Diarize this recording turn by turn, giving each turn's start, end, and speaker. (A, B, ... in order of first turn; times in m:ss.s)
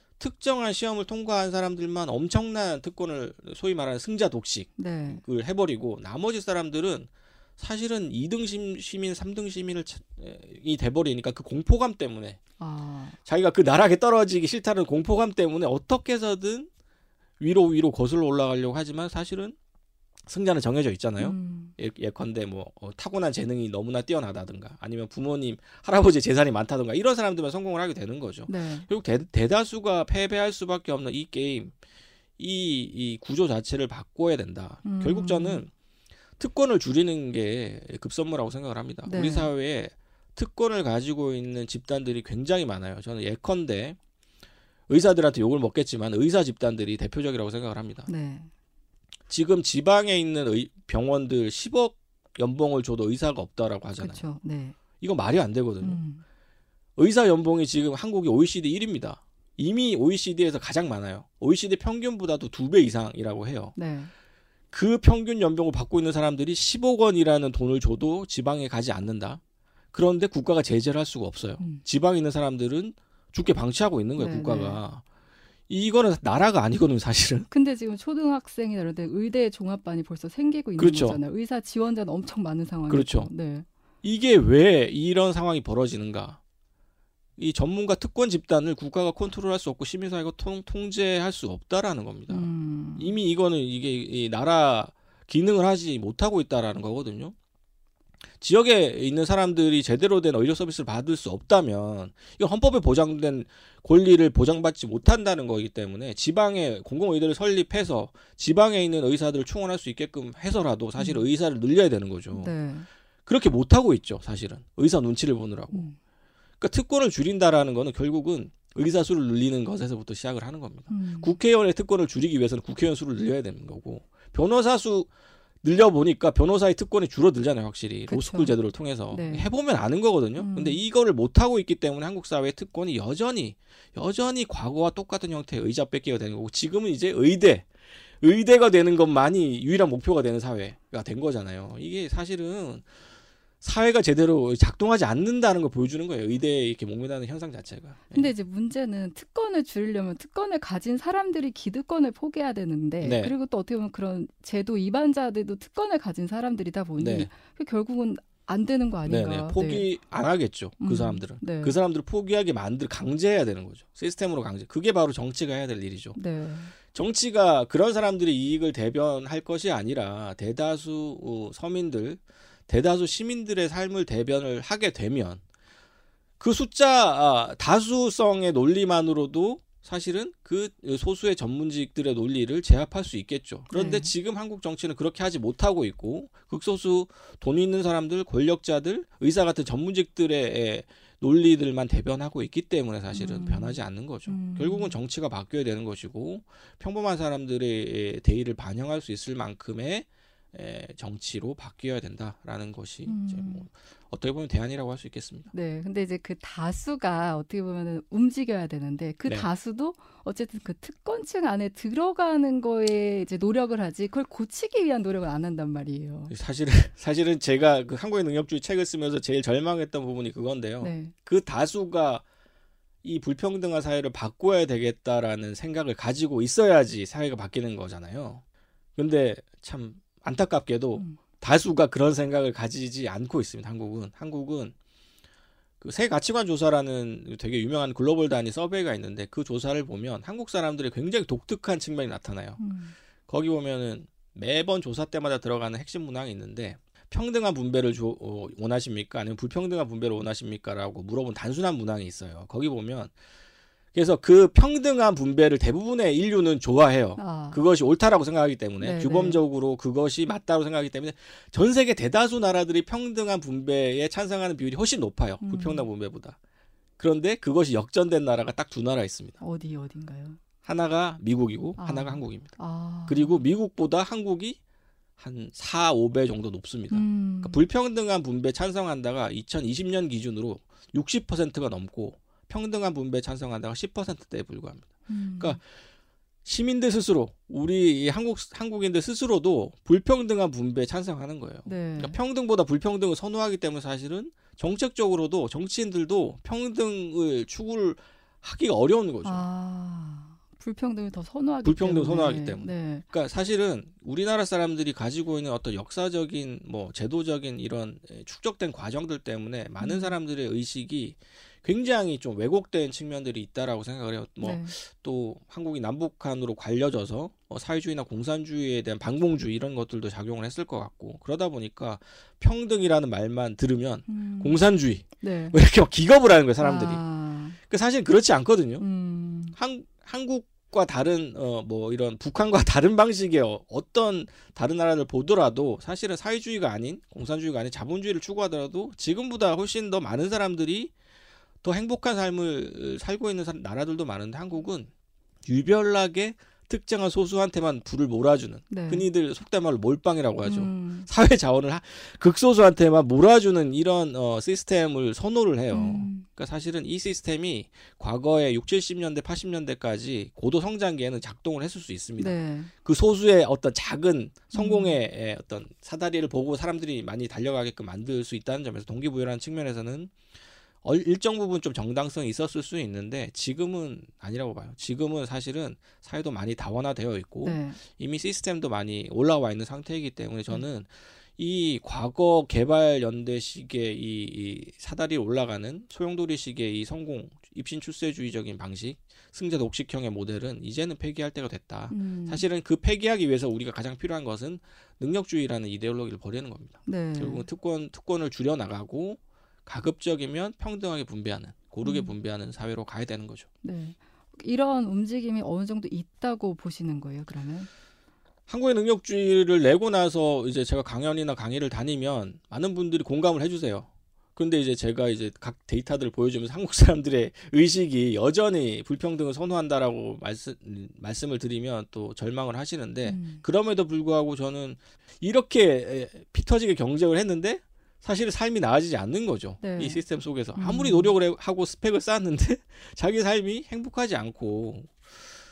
0:00.2-0:12.4 A
0:04.8-0:05.2 B
0:12.6-0:13.2 B
0:13.2-0:16.7 A
0:17.4-0:19.6 A
0:20.2-0:31.7 A
0:21.2-0:21.7 B
0:28.5-0:28.9 B
0:32.4-0:35.7 A
0:34.8-0:35.6 B
0:36.4-0:44.0 A
0:39.0-0:39.5 B
0:44.9-0:48.1 A
0:48.1-0:48.5 B
0:49.3-0:54.2 A
0:54.0-0:54.8 B
0:55.0-0:56.0 A
0:55.8-0:56.2 B
0:57.0-1:03.8 A
1:03.8-1:04.1 B
1:04.7-1:09.4 A
1:09.9-1:15.0 A
1:11.6-1:11.8 B
1:14.2-1:14.8 B
1:15.7-1:17.5 A
1:17.5-1:23.6 B
1:20.8-1:21.2 A
1:22.9-1:23.3 A
1:24.0-1:26.4 A
1:27.4-1:37.3 A
1:32.3-1:33.1 B
1:38.4-1:52.5 A
1:51.0-1:51.2 B
1:52.3-1:52.9 B
1:53.2-1:55.9 A
1:56.6-2:05.1 A
2:00.9-2:01.3 B
2:05.6-2:17.7 A
2:08.1-2:08.5 B
2:09.1-2:09.4 B
2:10.4-2:10.8 B
2:18.2-2:22.8 A
2:23.6-2:28.3 A
2:28.1-2:39.9 B
2:33.0-2:33.3 A
2:37.0-2:37.3 A
2:39.0-2:46.2 A
2:40.8-2:41.8 B
2:46.2-2:46.7 B
2:46.9-2:55.4 A
2:56.4-3:25.5 A
3:03.7-3:04.1 B
3:13.1-3:15.0 B
3:23.0-3:23.6 B
3:25.5-3:36.3 B
3:36.3-3:42.2 A
3:40.8-3:41.1 B
3:43.0-3:48.4 A
3:49.0-3:54.7 A
3:55.8-4:02.6 A
4:02.6-4:03.0 B
4:03.3-4:13.1 A
4:13.9-4:26.4 A
4:17.2-4:17.7 B
4:18.8-4:19.4 B
4:25.4-4:25.9 B
4:27.0-4:29.4 A
4:29.4-4:30.4 B
4:30.6-4:34.6 A
4:31.8-4:33.4 B
4:35.2-4:45.6 A
4:36.9-4:37.6 B
4:45.1-4:45.6 B
4:46.4-4:59.4 A
4:51.6-4:52.2 B
4:59.2-5:03.0 B
5:01.6-5:27.0 A
5:09.8-5:10.2 B
5:14.4-5:14.7 B
5:24.1-5:24.6 B
5:25.2-5:25.6 B
5:26.6-5:27.6 B
5:27.6-5:28.8 A
5:28.8-5:29.6 B
5:29.6-5:40.9 A
5:41.6-5:44.9 A
5:45.4-6:10.1 A
5:48.7-5:49.1 B
5:50.4-5:51.1 B
5:55.7-5:56.2 B
6:02.2-6:02.7 B
6:04.5-6:05.0 B
6:10.8-6:43.5 A
6:17.4-6:17.8 B
6:31.9-6:32.4 B
6:36.8-6:37.4 B
6:41.8-6:42.1 B
6:43.6-6:47.7 B
6:48.5-7:15.0 A
7:03.0-7:03.4 B
7:09.6-7:10.0 B
7:10.6-7:11.1 B